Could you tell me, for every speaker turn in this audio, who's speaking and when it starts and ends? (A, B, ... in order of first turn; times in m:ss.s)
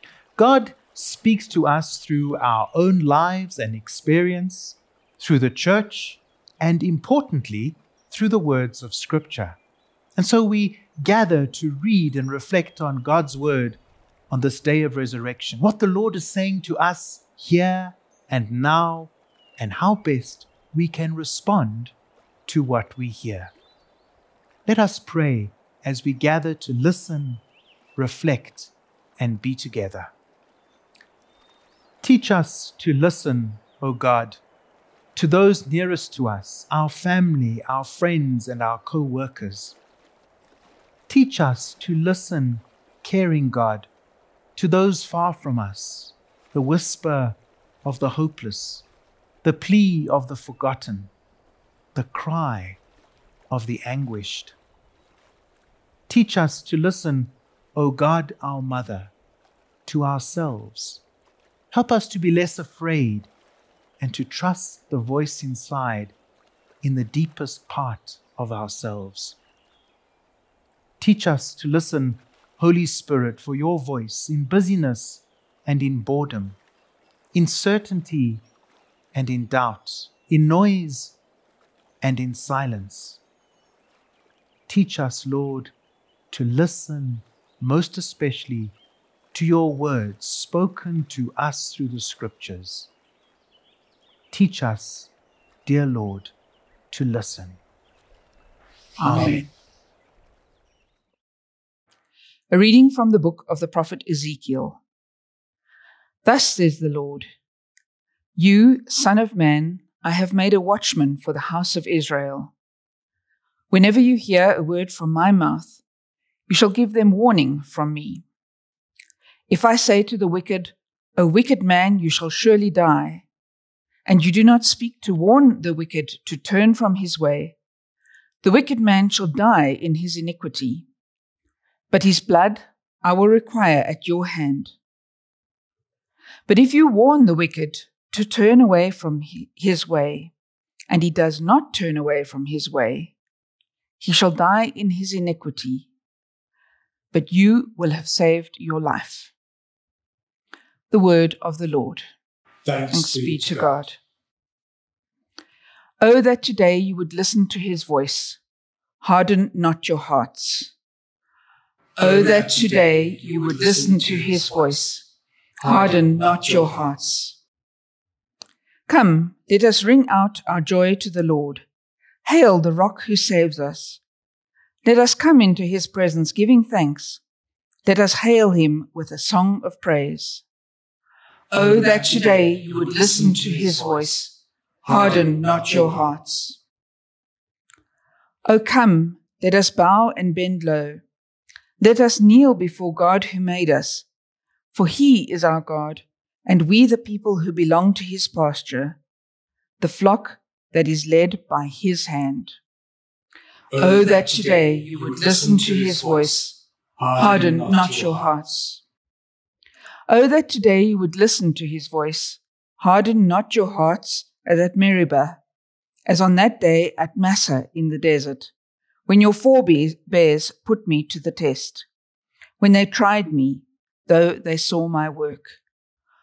0:00.4-0:09.6 A
0:10.2-0:21.9 A
0:22.4-0:23.5 A
0:24.6-0:27.4 A
0:28.0-0:30.1 A
0:32.0-0:34.4 A
0:35.2-0:39.8 A
0:41.1-0:43.9 A
0:44.6-0:48.8 A
0:49.4-0:51.1 A
0:51.9-0:52.8 A
0:53.5-0:54.6 A
0:56.1-0:59.1 A
0:59.8-1:01.0 A
1:01.7-1:03.3 A
1:04.0-1:06.1 A
1:06.8-1:09.4 A
1:11.0-1:16.6 A
1:17.3-1:18.4 A
1:19.1-1:21.2 A
1:22.0-1:23.2 A
1:24.7-1:25.7 A
1:26.3-1:28.8 A
1:29.3-1:32.9 A
1:34.3-1:35.1 A
1:35.6-1:36.3 A
1:36.9-1:37.6 A
1:39.0-1:39.4 B
1:39.0-1:39.5 A
1:42.5-1:44.8 B
1:46.2-1:47.2 B
1:48.4-1:52.5 B
1:53.7-1:55.8 B
1:56.5-1:58.2 B
1:59.5-2:03.2 B
2:04.0-2:07.6 B
2:08.4-2:10.8 B
2:11.9-2:14.8 B
2:16.5-2:20.3 B
2:20.9-2:23.1 B
2:24.0-2:25.9 B
2:27.1-2:29.3 B
2:30.9-2:32.1 B
2:32.6-2:33.7 C
2:32.9-2:34.0 B
2:36.0-2:38.4 B
2:39.0-2:40.7 B
2:42.0-2:45.0 B
2:42.0-2:44.4 C
2:45.6-2:46.7 C
2:45.6-2:47.4 B
2:48.9-2:51.6 B
2:52.2-2:54.0 B
2:54.8-2:57.2 B
2:57.8-3:00.4 B
3:01.5-3:06.6 B
3:01.6-3:02.2 C
3:02.7-3:03.7 C
3:04.8-3:05.8 C
3:08.4-3:11.0 B
3:11.8-3:14.0 B
3:14.7-3:19.0 B
3:19.8-3:22.6 B
3:23.7-3:26.2 C
3:23.7-3:26.6 B
3:27.0-3:28.2 C
3:27.2-3:28.8 B
3:30.1-3:35.4 B
3:36.0-3:38.5 B
3:39.1-3:41.9 B
3:42.6-3:45.6 B